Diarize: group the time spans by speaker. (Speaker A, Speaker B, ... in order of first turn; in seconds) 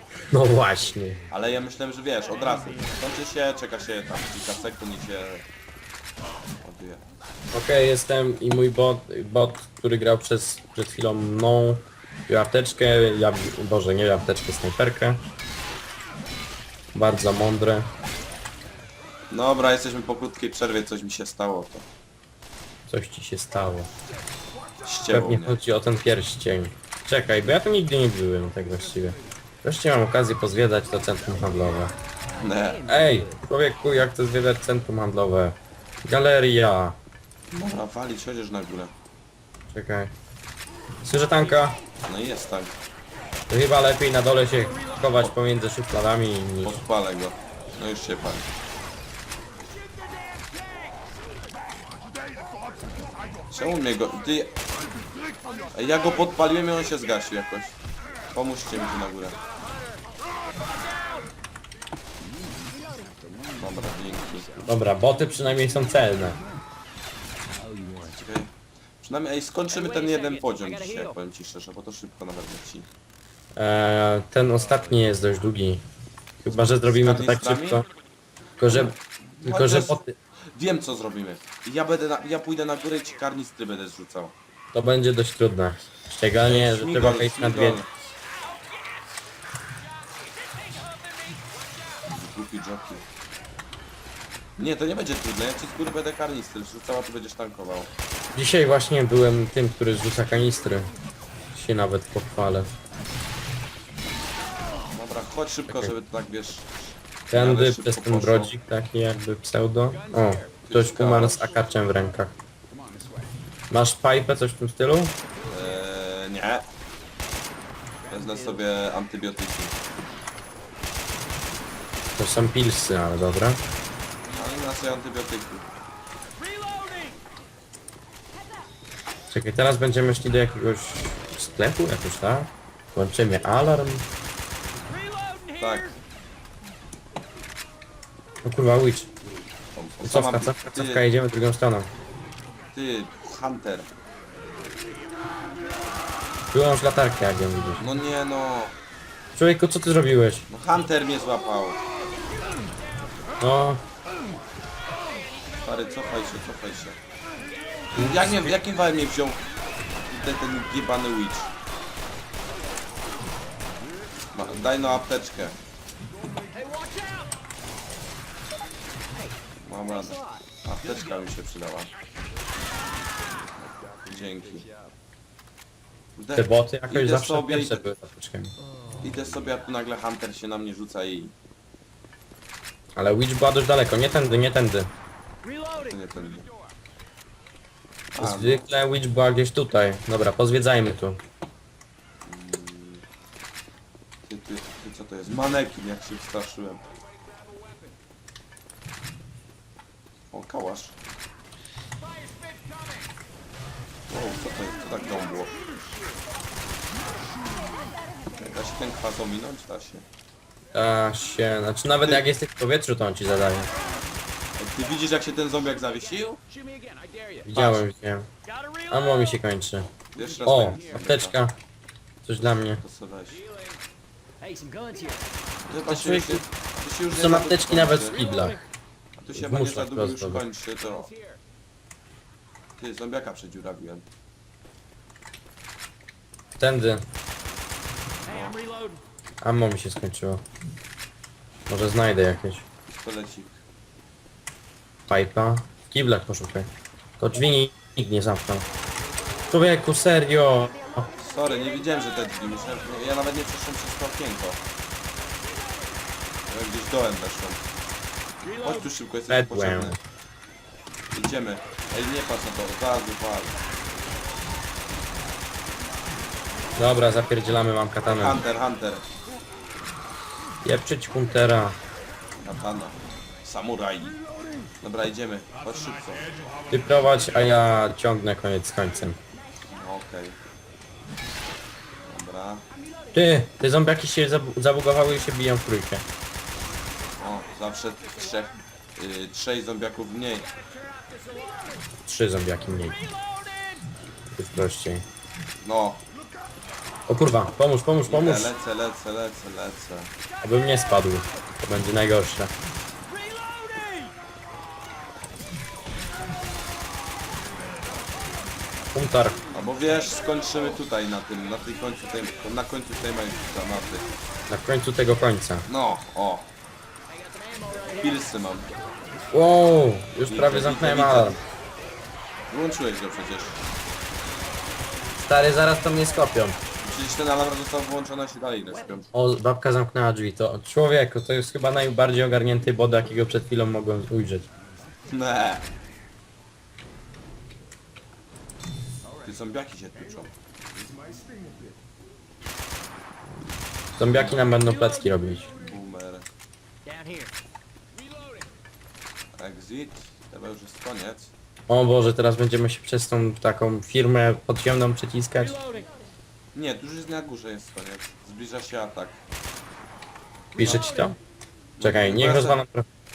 Speaker A: 0.3-1.2, 7.5-15.2, 16.9-17.9, 22.9-23.9, 25.1-31.9, 32.9-37.0, 39.7-40.1, 41.0-41.8, 43.5-46.8, 64.7-66.4, 73.6-75.8, 76.4-77.8, 78.6-80.2, 84.7-87.8, 98.3-100.9, 101.5-102.7, 105.7-105.9, 107.3-112.3, 113.7-115.2, 122.2-123.6, 129.3-134.1, 138.4-139.1, 140.0-141.9, 146.5-147.8, 149.3-150.5, 153.4-153.8, 158.0-158.5, 176.3-178.5, 183.0-184.9, 188.2-191.2, 210.7-213.7, 217.4-218.3, 218.9-219.9, 220.5-221.6, 222.3-222.8, 225.9-226.4, 227.1-228.6, 229.3-230.4, 236.6-237.1, 239.4-240.4, 241.7-242.6, 245.1-248.7, 249.5-251.1, 259.3-260.0, 266.8-268.4, 270.6-271.8, 276.7-279.2, 283.1-286.1, 292.1-293.0, 294.3-295.1, 297.1-298.5, 300.4-302.5, 308.9-309.4, 314.5-315.7, 319.3-321.4, 325.2-326.6, 329.1-334.5, 344.0-345.5, 351.7-355.6, 360.6-361.2, 361.8-362.9
Speaker B: 1.1-1.4, 32.5-33.4, 44.7-45.0, 50.4-50.8, 59.6-60.0, 62.2-66.4, 67.5-68.3, 69.7-71.2, 74.7-75.0, 109.9-110.6, 112.7-113.3, 118.0-118.6, 126.4-127.2, 134.9-135.9, 166.5-167.3, 169.9-171.3, 173.6-174.9, 178.7-179.0, 185.4-186.7, 205.7-206.1, 216.5-217.5, 218.5-219.2, 220.2-220.9, 223.3-223.8, 224.4-225.4, 228.1-228.6, 230.9-231.4, 238.3-239.0, 291.0-291.8, 293.4-293.7, 303.5-304.0, 317.2-318.2, 340.8-341.6, 346.9-347.3, 355.4-355.9, 360.5-361.1
Speaker C: 1.3-5.4, 6.6-7.0, 19.3-21.9, 24.8-25.6, 32.4-32.8, 37.5-38.9, 42.0-42.7, 46.6-48.5, 53.5-54.5, 55.7-57.8, 58.3-59.4, 63.6-64.7, 68.0-72.9, 76.9-77.8, 78.7-80.0, 80.5-84.3, 86.5-87.9, 92.0-93.0, 94.6-97.9, 104.8-106.7, 107.3-108.5, 110.6-111.6, 115.5-116.7, 118.1-119.8, 124.3-125.7, 135.6-136.0, 139.7-141.1, 142.7-143.9, 147.8-148.7, 150.5-151.8, 155.6-157.0, 157.9-159.4, 160.1-161.5, 164.3-165.6, 169.7-171.9, 174.1-174.7, 176.2-177.9, 179.0-181.3, 185.7-186.5, 188.1-188.7, 192.2-193.0, 194.3-196.9, 200.3-201.0, 204.1-205.6, 208.3-210.1, 212.0-212.2, 214.6-216.4, 217.5-217.8, 220.1-221.4, 222.8-223.4, 225.7-228.2, 229.2-231.1, 232.8-234.1, 238.3-238.6, 242.9-243.6, 251.2-254.6, 256.5-257.6, 258.6-260.0, 261.1-263.6, 268.1-269.1, 272.4-274.2, 274.8-276.3, 279.7-280.4, 282.0-282.7, 287.2-290.6, 295.6-296.0, 298.1-300.1, 309.5-314.1, 315.7-316.5, 317.9-318.7, 320.3-321.4, 322.5-323.6, 326.8-329.1, 335.1-335.6, 339.2-340.3, 344.1-344.5, 345.6-346.3, 349.4-351.3, 356.5-359.2, 361.8-362.6